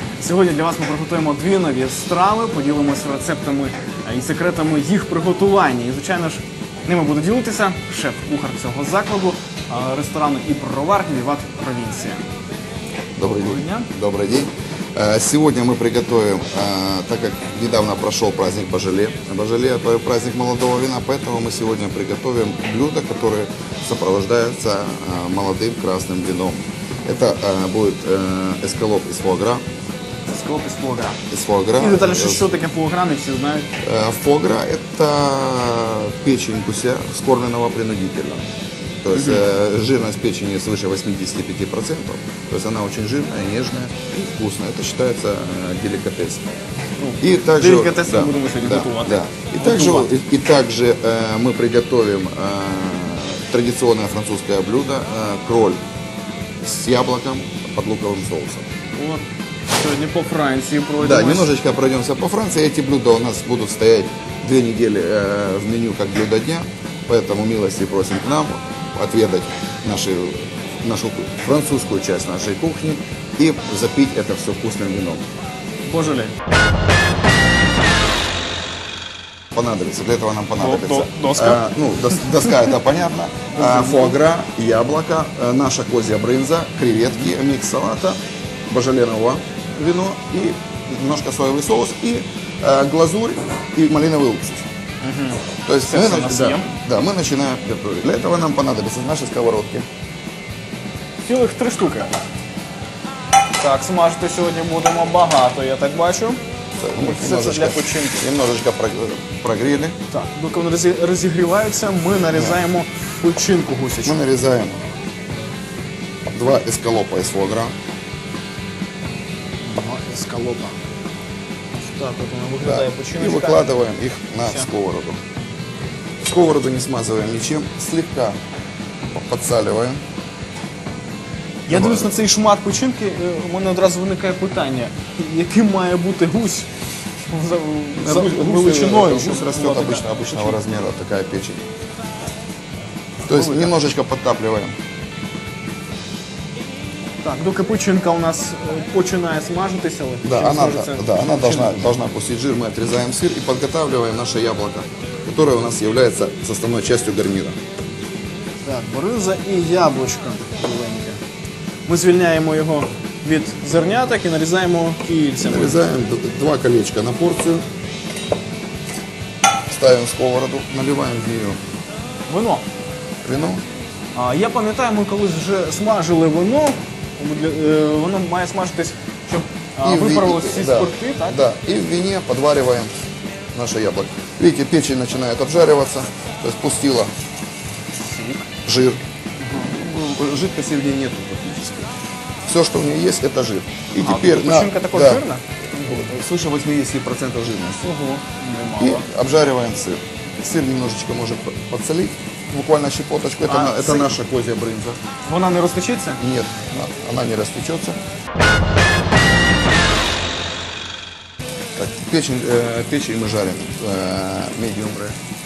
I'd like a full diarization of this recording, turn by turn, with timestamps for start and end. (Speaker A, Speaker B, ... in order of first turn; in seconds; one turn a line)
Speaker A: 0.2-12.2
Speaker B: 13.2-29.6
Speaker A: 13.2-13.9
Speaker A: 30.3-31.2
Speaker B: 31.3-32.5
Speaker A: 31.8-33.7
Speaker B: 33.8-38.5
Speaker B: 39.0-46.4
Speaker A: 39.1-39.4
Speaker A: 47.0-50.1
Speaker B: 47.2-55.8
Speaker B: 56.6-58.7
Speaker A: 58.9-61.5
Speaker B: 61.0-75.3
Speaker A: 75.8-76.3
Speaker B: 79.5-94.7
Speaker A: 80.6-82.6
Speaker A: 83.5-84.2
Speaker A: 95.0-96.7
Speaker B: 95.7-99.9
Speaker A: 101.2-102.2
Speaker A: 103.6-106.4
Speaker B: 106.8-110.0
Speaker A: 107.0-108.3
Speaker A: 110.1-114.2
Speaker B: 112.3-112.6
Speaker B: 114.0-114.9
Speaker B: 116.3-117.8
Speaker A: 119.6-120.8
Speaker A: 121.7-123.7
Speaker B: 122.6-125.2
Speaker B: 126.2-128.4
Speaker B: 129.1-130.0
Speaker A: 131.7-140.6
Speaker B: 131.7-132.2
Speaker B: 138.0-141.6
Speaker B: 143.3-144.8
Speaker A: 143.3-143.8
Speaker A: 147.2-151.9
Speaker B: 150.2-157.6
Speaker A: 158.6-161.2
Speaker A: 161.9-165.8
Speaker B: 165.4-167.7
Speaker B: 169.7-171.6
Speaker A: 172.3-172.7
Speaker B: 173.2-173.6
Speaker A: 174.2-181.4
Speaker B: 179.8-182.9
Speaker B: 183.5-187.1
Speaker A: 187.9-188.5
Speaker B: 188.7-191.9
Speaker A: 189.4-189.7
Speaker B: 192.5-195.2
Speaker A: 194.0-196.1
Speaker B: 195.8-197.9
Speaker A: 197.8-199.1
Speaker B: 198.8-205.0
Speaker A: 203.4-204.1
Speaker A: 205.2-206.2
Speaker B: 206.2-208.0
Speaker B: 211.8-215.2